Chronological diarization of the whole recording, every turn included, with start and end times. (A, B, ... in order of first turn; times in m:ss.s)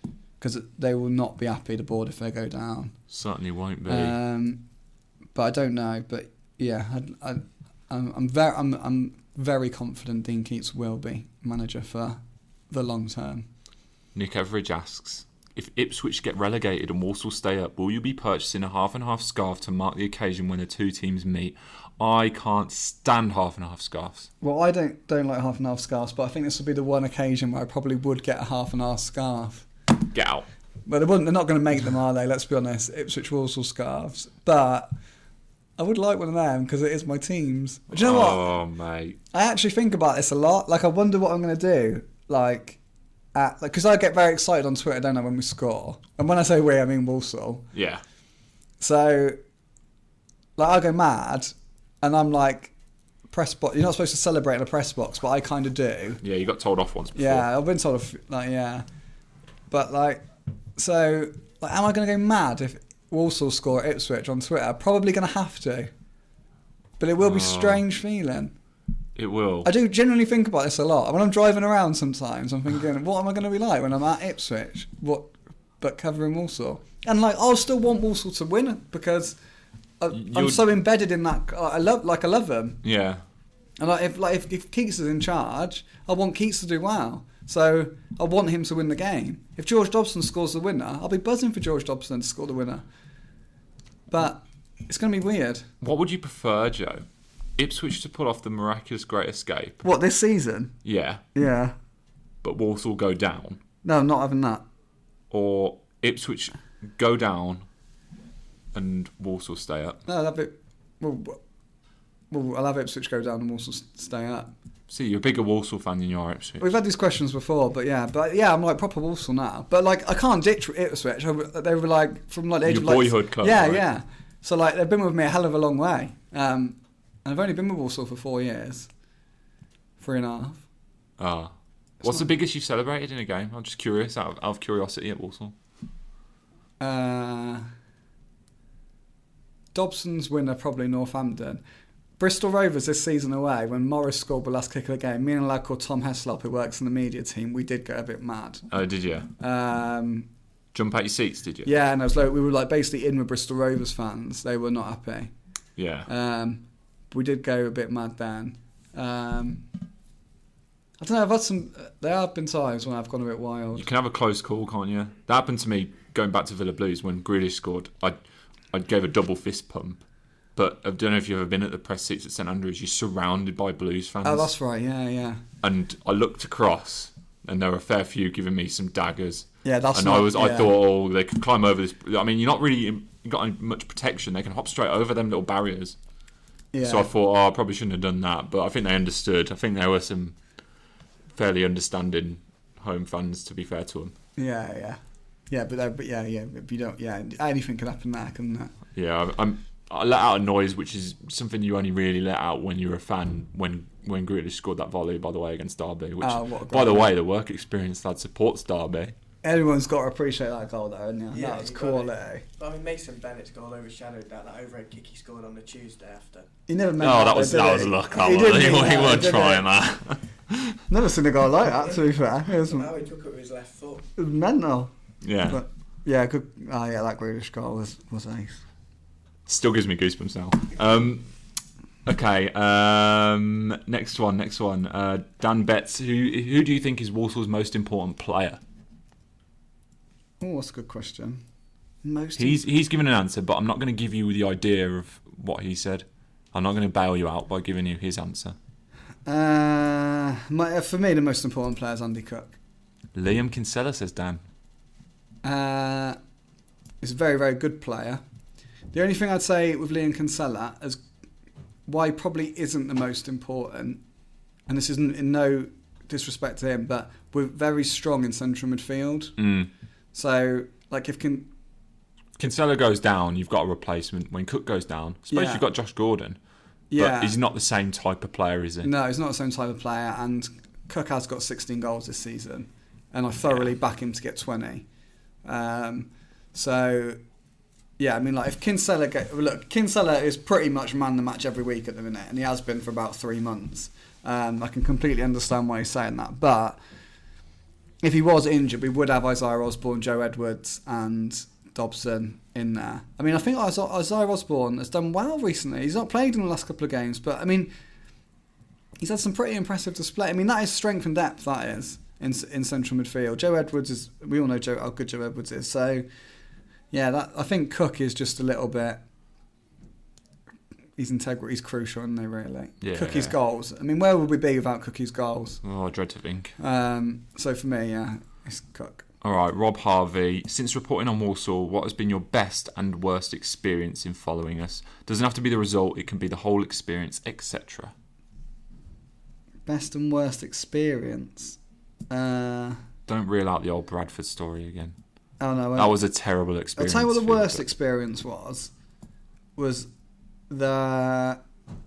0:00.4-0:03.0 A
0:03.1-0:04.2 B
0:03.9-0:04.6 A
0:05.4-0:13.5 A
0:14.2-0:24.3 B
0:24.4-0:29.7 A
0:30.1-0:30.5 B
0:30.9-0:34.9 A
0:35.8-0:38.5 A
0:37.9-0:39.2 B
0:39.3-0:42.8 A
0:43.4-0:47.7 A
0:47.7-0:48.0 B
0:48.8-0:49.4 A
0:50.6-0:52.7 A
0:53.3-0:56.2 A
0:56.2-0:57.5 B
0:57.2-0:58.8 A
0:59.7-1:00.2 A
1:00.8-1:05.9 A
1:07.0-1:08.5 A
1:07.2-1:07.9 B
1:09.2-1:09.7 B
1:09.6-1:19.4 A
1:20.0-1:22.8 A
1:20.1-1:20.6 B
1:22.8-1:23.2 B
1:23.8-1:32.8 A
1:34.1-1:35.7 A
1:35.8-1:37.0 B
1:37.6-1:39.8 B
1:39.8-1:40.8 A
1:40.8-1:41.2 B
1:41.3-1:41.8 A
1:42.4-1:43.6 B
1:43.8-1:44.6 A
1:45.3-1:47.6 B
1:48.7-1:50.0 B
1:50.1-1:51.4 A
1:52.3-1:54.5 A
1:54.9-1:56.7 B
1:56.6-2:08.9 A
2:02.6-2:03.8 B
2:10.0-2:10.6 A
2:11.2-2:15.6 B
2:16.8-2:17.7 A
2:19.7-2:21.6 A
2:22.2-2:28.7 A
2:28.7-2:29.3 B
2:29.4-2:30.3 A
2:30.7-2:31.7 B
2:31.6-2:35.3 A
2:35.8-2:36.1 B
2:36.1-2:39.7 A
2:41.0-2:43.9 A
2:43.8-2:48.2 B
2:48.7-2:50.0 B
2:50.6-2:54.5 B
2:54.2-2:55.4 A
2:55.6-3:06.0 B
2:59.6-3:00.7 A
3:06.7-3:07.1 A
3:06.8-3:10.4 B
3:11.3-3:14.1 B
3:14.4-3:18.7 A
3:19.0-3:29.1 B
3:26.2-3:27.1 A
3:29.4-3:32.4 A
3:31.3-3:36.5 C
3:36.7-3:39.7 A
3:37.0-3:40.8 B
3:40.9-3:42.9 A
3:42.6-3:44.1 C
3:44.2-3:44.9 A
3:45.2-3:45.6 B
3:45.4-3:48.6 A
3:49.5-3:51.3 B
3:52.1-3:58.6 B
4:00.4-4:01.4 A
4:02.0-4:02.6 A
4:02.4-4:08.6 B
4:09.3-4:12.6 A
4:13.2-4:14.4 B
4:15.4-4:16.2 A
4:17.0-4:18.2 A
4:18.9-4:21.0 A
4:21.9-4:24.0 A
4:24.7-4:29.4 A
4:29.4-4:29.7 B
4:30.1-4:31.5 A
4:32.4-4:36.4 B
4:35.3-4:35.6 A
4:36.9-4:37.4 A
4:37.0-4:38.9 B
4:38.8-4:44.8 A
4:45.4-4:47.2 A
4:48.0-4:56.8 A
4:58.0-5:07.7 A
5:09.0-5:16.0 A
5:16.9-5:19.0 A
5:21.0-5:25.6 A
5:22.8-5:23.4 B
5:25.6-5:26.6 B
5:26.6-5:29.1 A
5:29.2-5:37.9 B
5:39.7-5:41.6 A
5:42.1-5:42.8 A
5:43.1-5:45.0 B
5:45.4-5:46.0 A
5:45.8-5:47.6 B
5:46.8-5:48.7 A
5:49.6-5:49.9 A
5:50.5-5:51.4 A